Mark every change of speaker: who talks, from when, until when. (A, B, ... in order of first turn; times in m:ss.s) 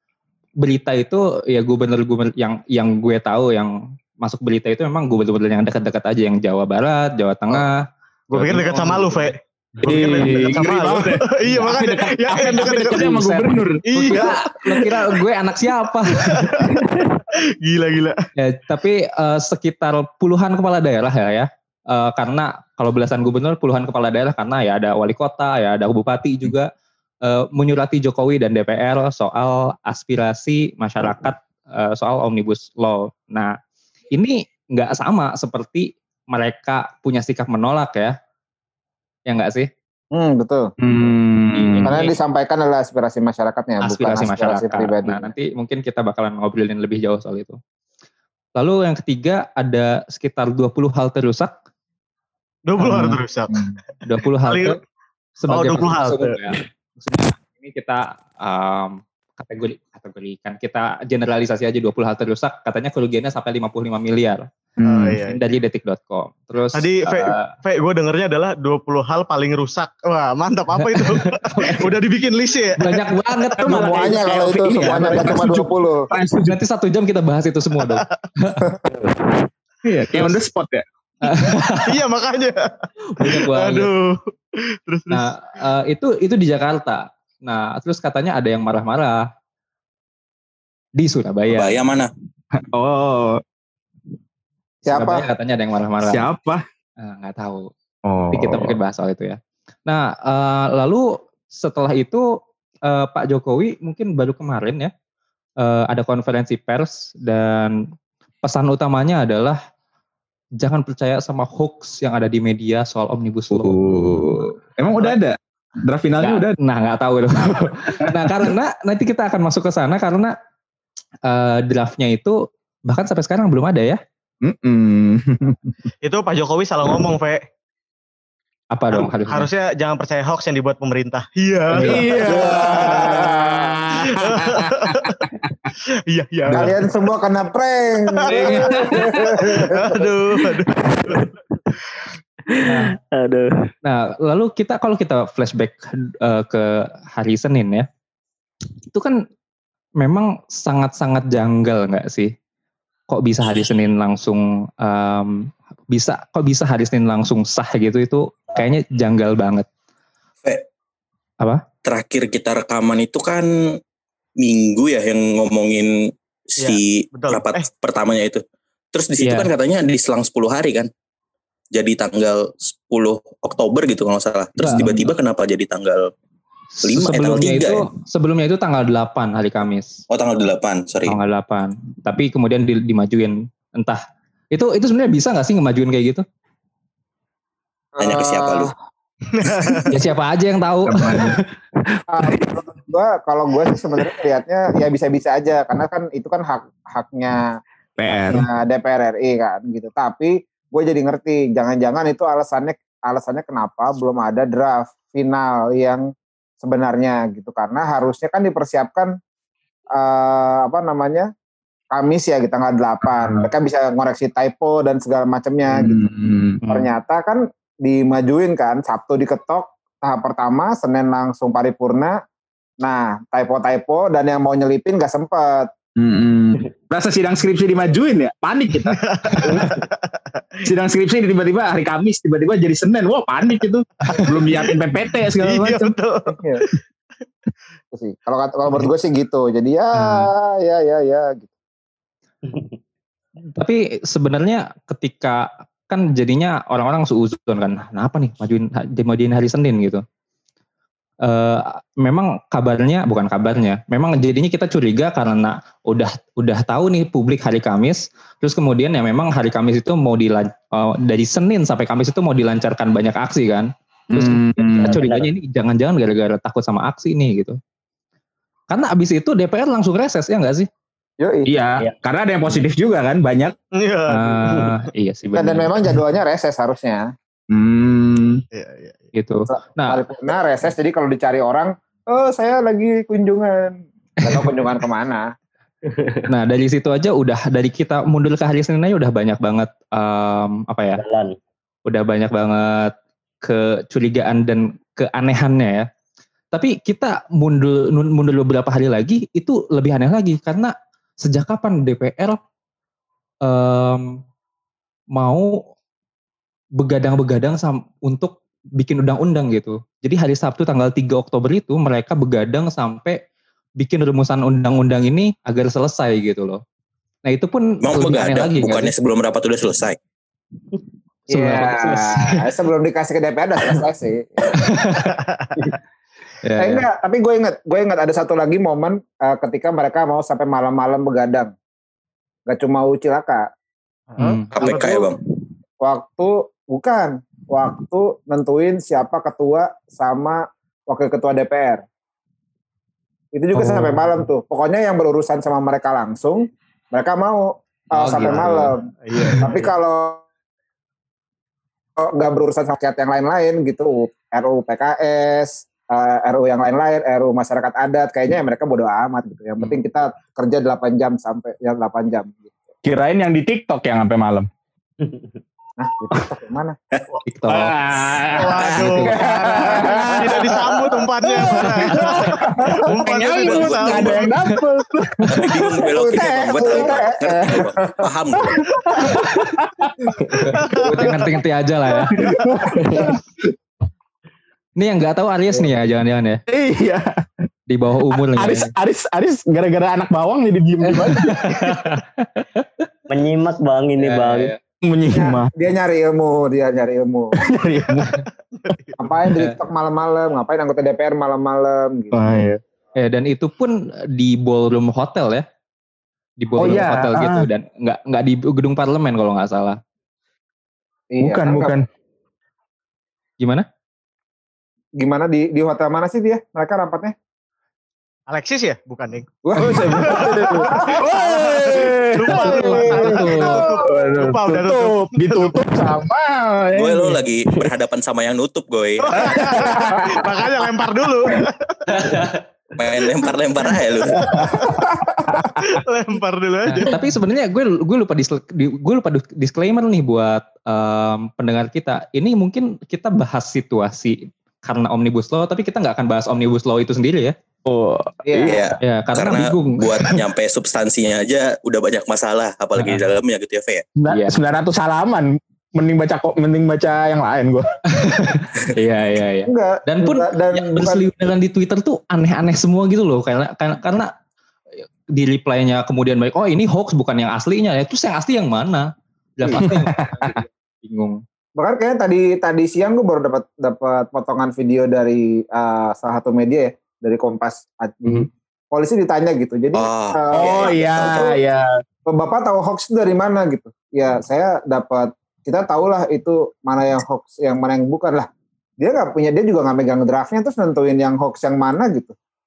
0:00.6-0:09.3 A
0:08.3-0:13.2 B
0:09.8-0:14.3 C
0:09.9-0:10.6 A
0:12.6-0:16.7 A
0:13.8-0:15.2 B
0:16.1-0:18.2 B
0:18.4-0:26.7 A
0:27.2-0:33.6 A
0:34.1-0:38.2 A
0:39.3-0:39.7 A
0:40.1-0:41.1 D
0:40.8-0:41.9 C
0:41.5-0:42.1 A
0:41.8-0:45.3 D
0:43.8-0:47.6 A
0:48.6-0:51.5 A
0:52.7-0:53.6 B
0:52.8-0:53.1 A
0:54.0-0:54.8 A
0:54.4-0:54.8 B
0:55.4-1:04.5 A
0:55.5-0:56.7 B
1:04.8-1:05.2 C
1:04.8-1:05.4 B
1:05.2-1:07.5 A
1:06.7-1:13.0 B
1:10.8-1:11.9 A
1:12.8-1:14.0 A
1:13.6-1:16.6 C
1:13.7-1:16.1 D
1:14.9-1:15.2 A
1:16.5-1:18.6 A
1:17.8-1:18.1 B
1:19.8-1:20.8 C
1:21.2-1:21.9 A
1:21.7-1:24.3 B
1:23.1-1:23.9 A
1:24.9-1:25.2 B
1:25.1-1:29.2 A
1:31.0-1:31.8 A
1:31.5-1:32.1 E
1:32.6-1:33.4 C
1:34.8-1:36.3 A
1:34.9-1:35.3 D
1:36.0-1:36.6 C
1:37.0-1:37.7 A
1:38.0-1:38.8 C
1:38.3-1:42.3 A
1:42.9-1:44.9 A
1:45.6-1:47.8 A
1:48.4-1:49.6 A
1:50.6-1:53.8 A
1:53.5-1:56.6 C
1:56.2-2:00.3 A
1:58.0-1:58.5 C
2:01.3-2:04.0 A
2:04.4-2:05.8 C
2:06.0-2:07.4 B
2:08.7-2:09.5 A
2:09.3-2:13.2 B
2:11.8-2:15.3 C
2:11.9-2:13.8 D
2:13.9-2:15.3 B
2:16.1-2:16.8 B
2:16.6-2:20.1 D
2:18.1-2:21.3 B
2:18.3-2:19.7 C
2:20.9-2:21.3 F
2:22.5-2:23.5 F
2:22.7-2:22.9 A
2:23.8-2:27.9 A
2:28.9-2:29.2 A
2:30.0-2:32.3 A
2:33.1-2:39.7 A
2:41.8-2:43.5 E
2:44.4-2:45.9 E
2:46.5-2:48.4 E
2:46.6-2:47.7 B
2:48.9-2:50.9 E
2:49.2-2:49.5 A
2:51.8-2:56.1 E
2:54.6-2:55.0 C
2:56.8-3:00.0 A
2:56.8-2:57.8 E
3:00.1-3:01.2 E
3:01.1-3:04.0 A
3:04.5-3:06.2 A
3:08.0-3:08.7 D
3:08.0-3:08.7 E
3:09.3-3:09.9 B
3:09.9-3:11.3 A
3:10.9-3:11.4 C
3:12.1-3:17.6 D
3:18.0-3:18.5 C
3:18.1-3:26.0 D
3:26.6-3:29.1 D
3:29.9-3:31.3 D
3:31.9-3:36.0 D
3:33.2-3:33.5 C
3:35.7-3:36.6 C
3:36.6-3:36.9 A
3:36.7-3:42.2 D
3:42.8-3:45.7 D
3:46.0-3:49.7 C
3:48.9-3:50.7 B
3:50.6-3:56.0 C
3:54.1-3:54.8 B
3:55.4-3:56.8 B
3:57.9-4:01.5 D
4:00.0-4:00.3 A
4:03.6-4:10.0 A
4:11.2-4:27.6 A
4:24.1-4:25.0 C
4:24.8-4:25.3 F
4:28.7-4:30.7 A
4:31.2-4:31.5 D
4:31.5-4:33.6 C
4:33.8-4:34.9 B
4:34.1-4:35.7 A
4:35.4-4:37.1 D
4:37.5-4:38.4 C
4:38.5-4:39.1 B
4:39.2-4:40.0 A
4:39.5-4:45.3 D
4:45.9-4:46.2 F
4:46.3-4:51.0 A
4:51.0-4:51.4 F
4:51.9-4:55.9 A
4:56.5-5:02.4 A
5:03.4-5:04.2 A
5:05.2-5:05.5 A
5:06.8-5:13.2 A
5:13.8-5:16.6 A
5:17.3-5:18.9 A
5:17.8-5:20.0 E
5:21.3-5:22.4 A
5:21.3-5:24.7 D
5:24.4-5:25.7 A
5:25.0-5:25.5 B
5:26.4-5:26.8 A
5:26.6-5:31.5 D
5:32.5-5:33.5 D
5:34.1-5:34.4 B
5:34.2-5:34.5 A
5:34.6-5:35.1 D
5:34.6-5:35.2 E
5:35.8-5:41.8 D
5:43.3-5:50.2 D
5:48.0-5:48.6 A
5:49.1-5:49.7 B
5:52.0-6:02.7 D
6:02.8-6:04.5 C
6:05.0-6:05.3 F
6:05.8-6:06.8 D
6:07.2-6:07.8 A
6:07.5-6:15.8 C
6:08.3-6:14.4 B
6:08.8-6:09.2 A
6:09.7-6:10.3 D
6:12.0-6:12.4 A
6:13.2-6:14.3 E
6:15.3-6:18.6 E
6:15.9-6:18.5 D
6:16.6-6:16.9 C
6:18.9-6:20.1 C
6:20.3-6:22.2 A
6:20.5-6:21.3 B
6:22.0-6:22.8 B
6:22.1-6:23.2 C
6:24.8-6:26.4 A
6:26.5-6:27.1 C
6:27.7-6:28.7 A
6:28.4-6:31.5 C
6:30.9-6:32.6 A
6:33.1-6:34.5 F
6:34.0-6:34.6 A
6:34.9-6:35.5 C
6:35.1-6:37.4 D
6:37.4-6:38.2 C
6:38.5-6:39.2 B
6:39.0-6:42.4 D
6:42.1-6:42.6 C
6:43.0-6:45.4 A
6:46.4-6:49.8 A
6:46.6-6:47.5 C
6:51.1-6:51.8 D
6:51.2-6:51.8 C
6:53.4-6:53.7 A
6:55.0-6:57.1 D
6:58.3-7:05.6 B
6:59.4-7:01.0 D
6:59.6-7:03.0 C
7:02.3-7:03.6 A
7:02.5-7:03.8 D
7:03.8-7:07.2 C
7:06.8-7:09.4 E
7:09.0-7:12.2 B
7:09.2-7:10.2 C
7:11.9-7:12.4 A
7:12.8-7:14.3 E
7:14.2-7:14.7 C
7:14.2-7:14.8 B
7:14.8-7:15.1 D
7:15.3-7:15.6 C
7:15.6-7:17.0 B
7:16.7-7:27.4 A
7:27.6-7:28.6 C
7:28.2-7:28.6 D
7:28.5-7:33.8 E
7:28.8-7:30.2 A
7:34.0-7:37.7 C
7:34.1-7:34.4 A
7:37.9-7:44.1 A
7:39.5-7:41.0 D
7:45.1-7:51.2 A
7:49.6-7:50.4 C
7:51.6-8:01.3 D
7:59.8-8:01.3 E
8:00.3-8:01.6 C
8:02.1-8:08.3 D
8:08.8-8:12.2 D